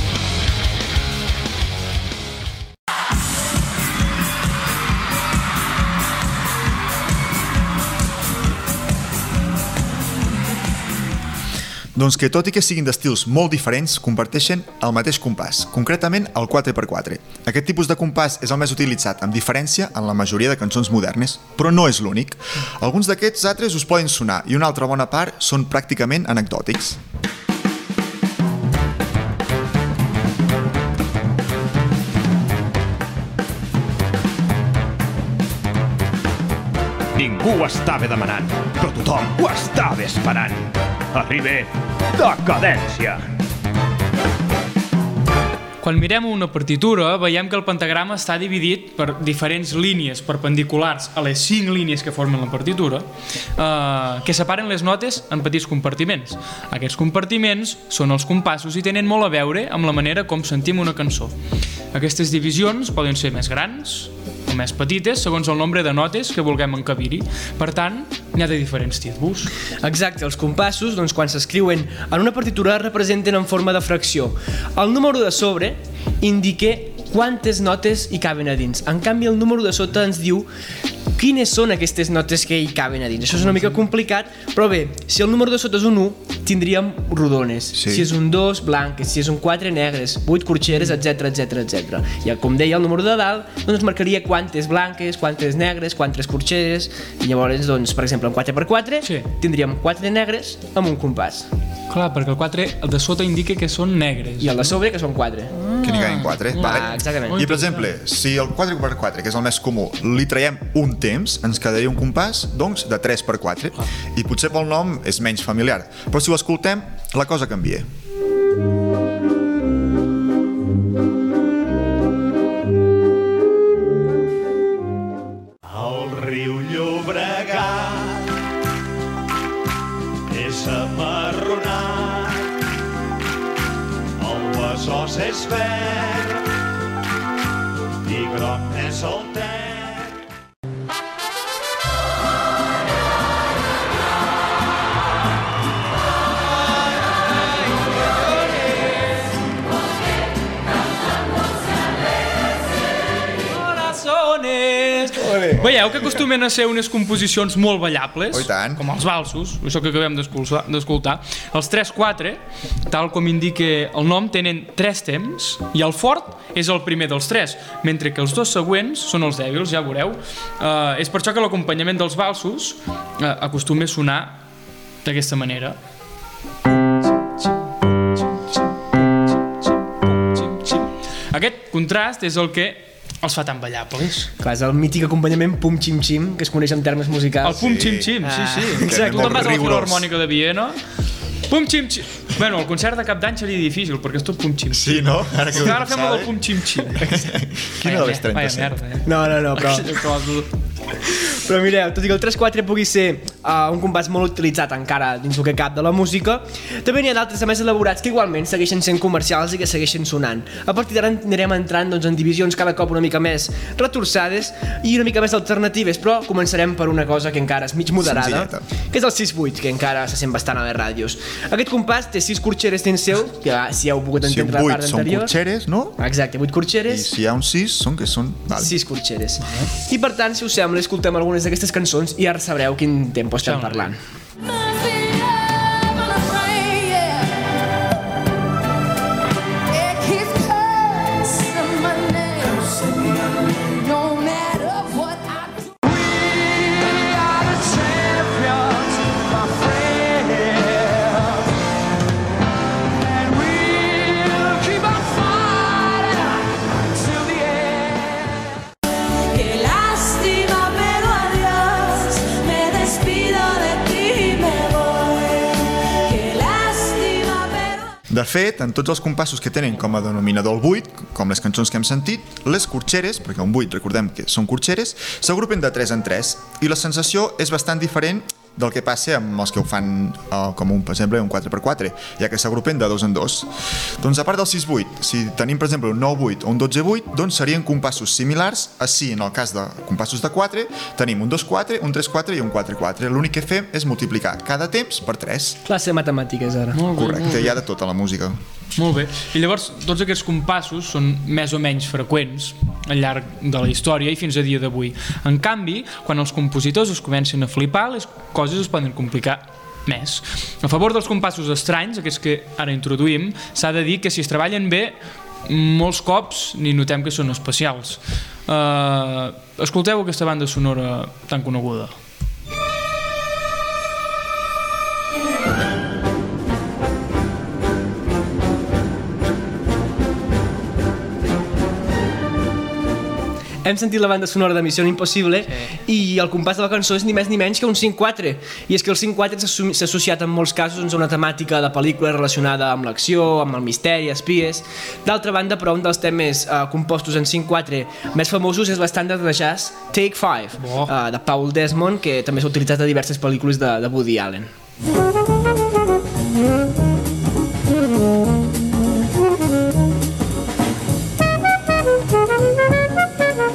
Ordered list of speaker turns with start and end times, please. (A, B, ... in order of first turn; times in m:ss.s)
0:12.0-0:27.0 A
0:37.1-0:43.3 B
0:45.8-1:01.3 C
1:01.9-1:09.5 C
1:09.8-1:20.5 D
1:21.2-1:41.5 D
1:27.7-1:28.1 A
1:41.9-1:44.8 C
1:44.4-1:45.8 D
1:45.6-1:47.9 C
1:45.8-1:57.8 A
1:46.6-1:47.6 D
2:05.6-2:08.3 B
2:10.3-2:12.4 B
2:14.2-2:16.3 B
2:18.0-2:20.1 B
2:33.4-2:54.4 C
2:35.6-2:36.2 A
2:38.3-2:38.8 A
2:55.0-2:55.8 C
3:00.0-3:04.3 C
3:04.4-3:07.7 D
3:07.4-3:10.8 C
3:07.6-3:08.2 A
3:08.2-3:09.6 D
3:08.8-3:10.1 A
3:11.5-3:17.2 C
3:14.7-3:16.4 A
3:16.9-3:18.8 A
3:17.8-3:20.5 C
3:19.0-3:19.9 D
3:21.0-3:45.3 D
3:38.0-3:38.7 A
3:44.2-3:46.0 A
3:46.0-3:47.1 D
3:46.9-3:48.7 A
3:48.6-3:54.0 D
3:53.4-3:53.9 C
3:54.4-3:57.4 E
3:59.7-4:11.4 E
4:13.1-4:18.4 E
4:19.1-4:27.9 E
4:28.1-4:43.5 A
4:44.0-4:55.6 A
4:55.6-4:56.9 D
4:56.7-4:57.6 C
4:56.9-4:58.4 A
4:58.8-5:21.9 C
5:33.6-5:54.5 D
5:50.6-5:50.9 C